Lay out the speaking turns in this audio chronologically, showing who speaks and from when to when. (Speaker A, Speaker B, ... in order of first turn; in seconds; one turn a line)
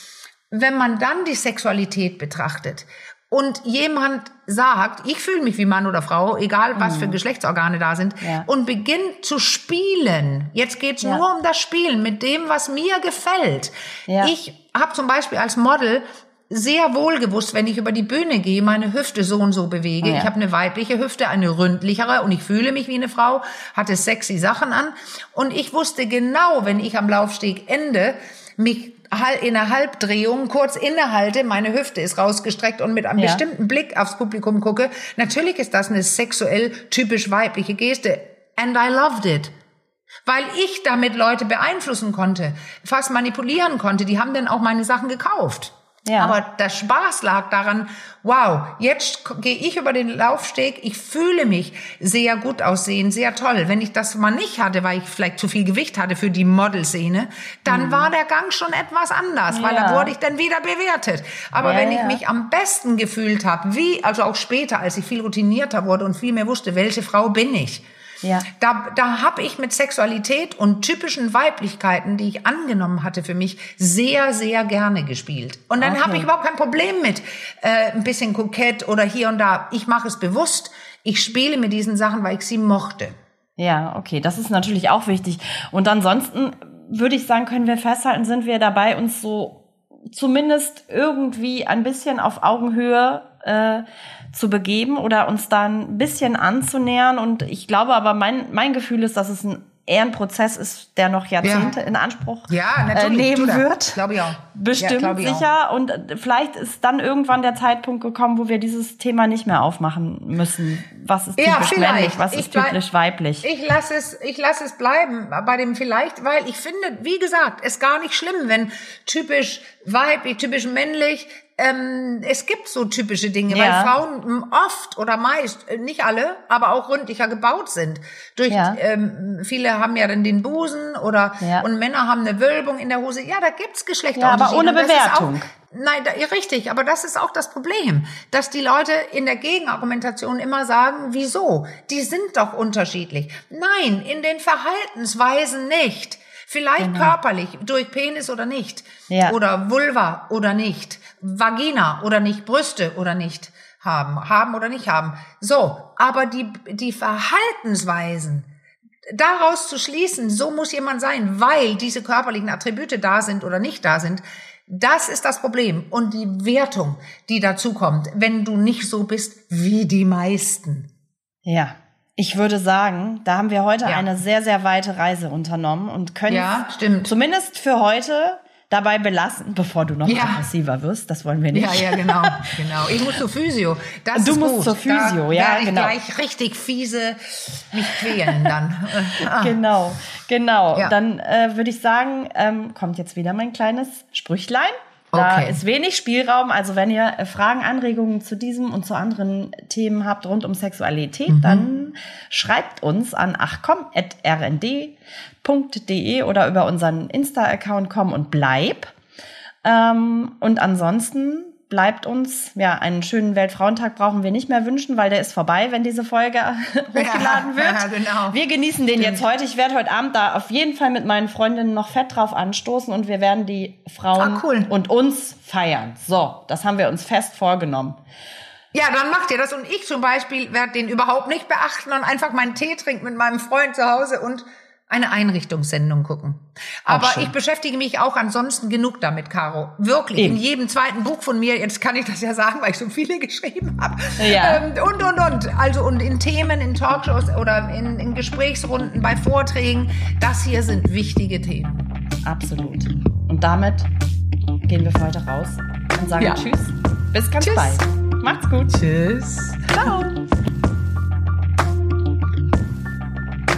Speaker A: 0.5-39.5
Speaker B: 6.8-7.2
Speaker B: 8.2-8.5
Speaker B: 14.1-14.3
Speaker B: 20.0-20.3
Speaker B: 33.2-33.4
Speaker A: 40.2-67.8
Speaker B: 46.0-46.4
Speaker B: 57.7-58.1
Speaker B: 59.5-60.1
Speaker B: 61.6-62.2
Speaker A: 68.5-83.1
Speaker B: 75.8-76.3
Speaker B: 83.6-113.5
Speaker A: 101.4-101.8
Speaker A: 102.5-105.5
Speaker A: 111.4-112.8
Speaker A: 113.4-158.5
Speaker B: 123.5-123.9
Speaker B: 128.5-128.8
Speaker B: 131.4-131.7
Speaker B: 134.2-135.5
Speaker B: 146.8-147.1
Speaker B: 149.1-149.4
Speaker A: 159.1-170.9
Speaker B: 171.5-182.5
Speaker A: 176.3-177.1
Speaker A: 180.1-180.4
Speaker A: 181.5-189.6
Speaker B: 184.2-185.9
Speaker B: 187.9-188.5
Speaker B: 189.2-208.9
Speaker A: 195.1-195.6
Speaker A: 201.3-201.7
Speaker B: 209.6-228.0
Speaker A: 216.9-218.4
Speaker A: 218.9-219.3
Speaker A: 224.2-224.7
Speaker A: 228.7-251.9
Speaker B: 236.9-237.3
Speaker B: 244.2-244.6
Speaker B: 252.2-253.9
Speaker B: 254.7-258.8
Speaker A: 256.2-256.5
Speaker A: 257.4-257.8
Speaker A: 258.7-259.9
Speaker B: 259.7-260.2